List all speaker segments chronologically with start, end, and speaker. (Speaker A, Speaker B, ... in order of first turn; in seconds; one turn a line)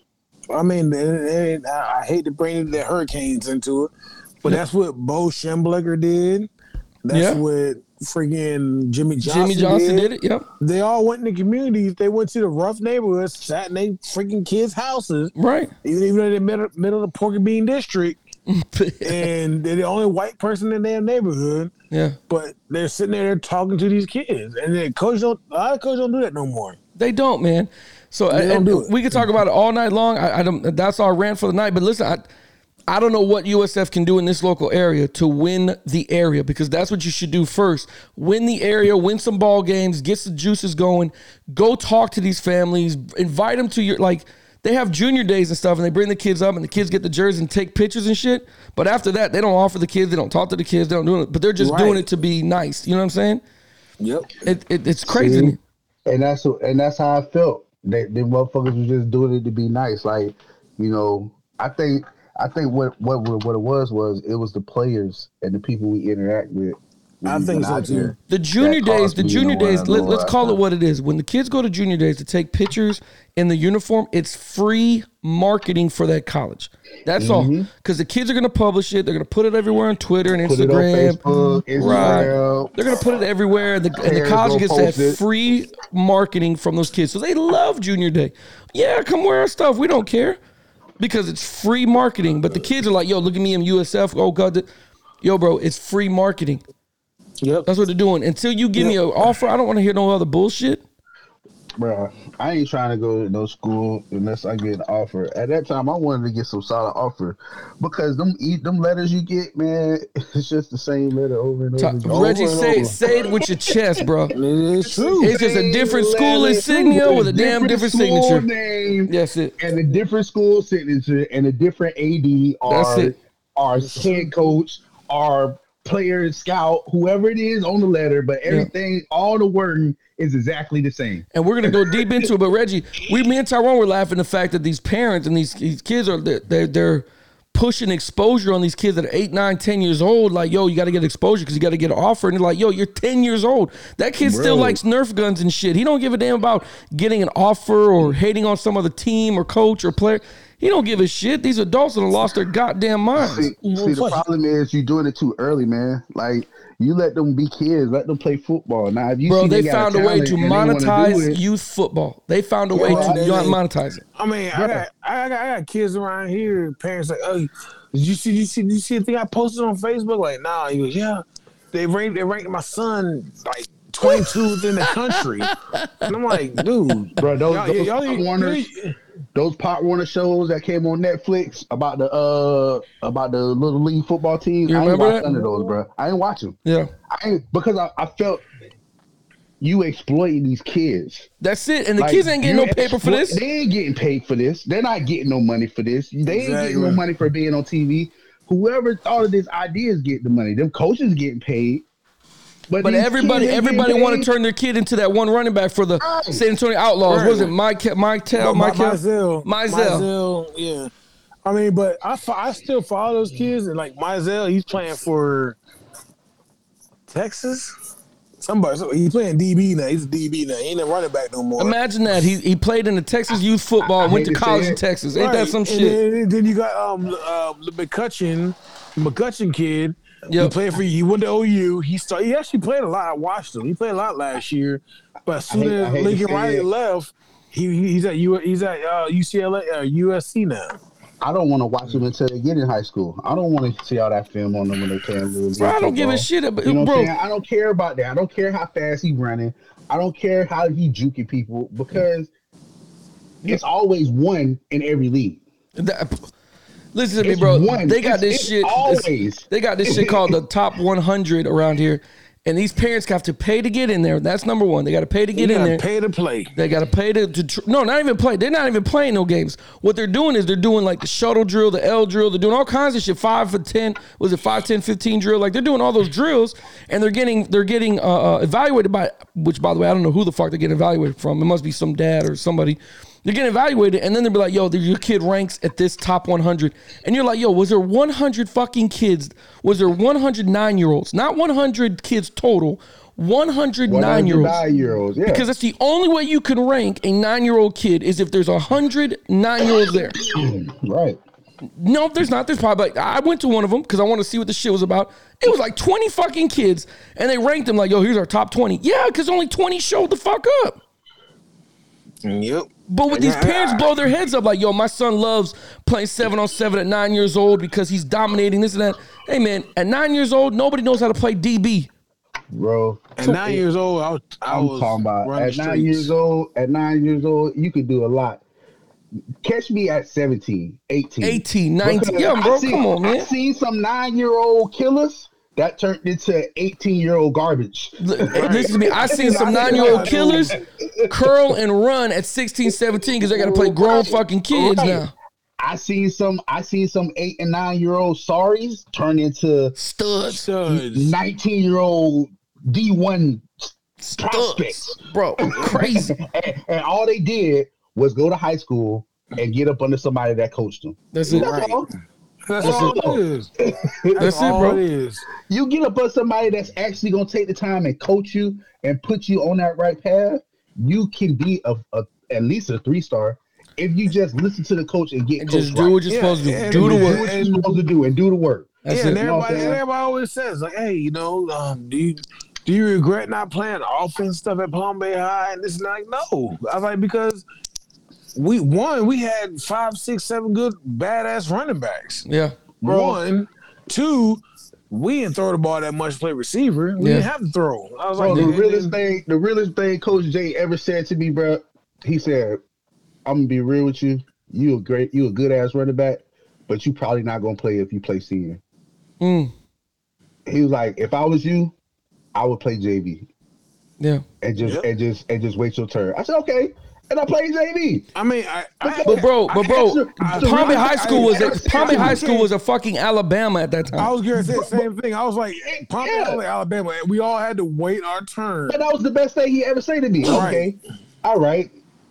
Speaker A: 0.5-3.9
Speaker A: 4.4-6.5
Speaker A: 7.0-15.3
Speaker B: 7.1-7.4
Speaker B: 9.2-10.4
Speaker B: 15.4-15.7
Speaker A: 15.8-18.2
Speaker B: 18.5-19.3
Speaker A: 19.0-21.7
Speaker B: 21.9-22.2
Speaker A: 22.3-26.8
Speaker B: 27.0-32.2
Speaker A: 28.3-29.2
Speaker B: 32.9-53.4
Speaker A: 51.6-52.0
Speaker A: 54.0-54.4
Speaker B: 54.5-55.6
Speaker C: 55.0-70.6
Speaker A: 67.2-68.2
Speaker B: 68.3-81.2
Speaker C: 77.2-77.7
Speaker C: 80.4-82.8
Speaker B: 81.8-90.4
Speaker C: 84.0-85.2
Speaker B: 91.0-94.7
Speaker B: 95.2-96.6
Speaker A: 97.4-97.7
Speaker B: 97.7-100.8
Speaker C: 101.8-113.8
Speaker B: 111.8-114.3
Speaker A: 114.3-115.3
Speaker C: 114.8-132.0
Speaker B: 115.2-118.5
Speaker B: 119.1-119.5
Speaker B: 122.7-123.1
Speaker A: 123.9-124.3
Speaker B: 131.3-153.5
Speaker C: 144.2-144.8
Speaker C: 153.2-161.4
Speaker A: 153.6-154.2
Speaker B: 159.3-164.0
Speaker C: 162.7-163.5
Speaker A: 162.7-163.6
Speaker A: 164.2-175.6
Speaker C: 164.5-164.8
Speaker B: 174.0-176.1
Speaker A: 176.1-179.0
Speaker C: 177.1-178.7
Speaker C: 179.3-186.6
Speaker B: 184.7-185.3
Speaker B: 186.7-186.9
Speaker C: 187.1-188.4
Speaker C: 189.6-191.3
Speaker B: 191.4-193.4
Speaker C: 192.0-201.9
Speaker A: 196.3-197.0
Speaker C: 202.7-204.3
Speaker B: 202.8-210.1
Speaker C: 206.0-206.4
Speaker A: 207.1-207.5
Speaker A: 208.4-210.9
Speaker A: 211.4-215.6
Speaker A: 217.1-217.7
Speaker A: 218.4-221.8
Speaker B: 221.6-226.0
Speaker C: 223.8-224.8
Speaker A: 225.2-240.8
Speaker B: 230.3-230.6
Speaker C: 235.5-236.7
Speaker C: 241.2-252.3
Speaker B: 245.6-247.1
Speaker C: 253.4-255.4
Speaker B: 255.8-256.3
Speaker B: 256.9-265.8
Speaker C: 257.2-260.4
Speaker A: 265.4-266.5
Speaker B: 266.5-294.6
Speaker C: 293.9-295.5
Speaker B: 295.3-300.2
Speaker C: 300.1-301.2
Speaker B: 301.8-310.8
Speaker A: 312.2-313.9
Speaker B: 312.9-321.9
Speaker C: 322.5-323.6
Speaker A: 323.2-326.1
Speaker C: 324.5-328.4
Speaker C: 329.4-341.2
Speaker B: 331.2-333.3
Speaker B: 338.0-340.6
Speaker A: 338.3-340.6
Speaker B: 341.1-345.1
Speaker C: 343.2-345.0
Speaker C: 345.6-349.8
Speaker B: 349.8-350.5
Speaker A: 350.3-351.1
Speaker C: 350.7-353.5
Speaker B: 354.0-356.1
Speaker C: 354.2-361.9
Speaker B: 361.1-361.5
Speaker A: 361.3-361.9
Speaker A: 362.5-363.5
Speaker C: 362.6-364.6
Speaker B: 362.6-363.0
Speaker A: 364.1-365.3
Speaker B: 364.2-364.8
Speaker C: 365.4-376.0
Speaker B: 375.4-377.2
Speaker A: 376.1-377.8
Speaker C: 376.7-379.8
Speaker B: 378.9-379.2
Speaker A: 378.9-387.4
Speaker A: 388.3-392.3
Speaker B: 392.3-392.6
Speaker C: 392.8-393.2
Speaker A: 392.8-398.9
Speaker B: 397.0-397.3
Speaker C: 398.2-402.6
Speaker B: 398.3-398.5
Speaker C: 403.3-408.6
Speaker B: 409.2-409.5
Speaker C: 410.5-411.7
Speaker C: 412.3-413.3
Speaker C: 414.4-418.1
Speaker A: 414.6-414.9
Speaker A: 418.1-419.4
Speaker C: 418.8-422.3
Speaker B: 419.1-424.1
Speaker A: 420.2-422.5
Speaker A: 424.0-428.8
Speaker C: 424.4-424.9
Speaker C: 425.6-426.4
Speaker C: 428.7-431.7
Speaker A: 430.2-430.7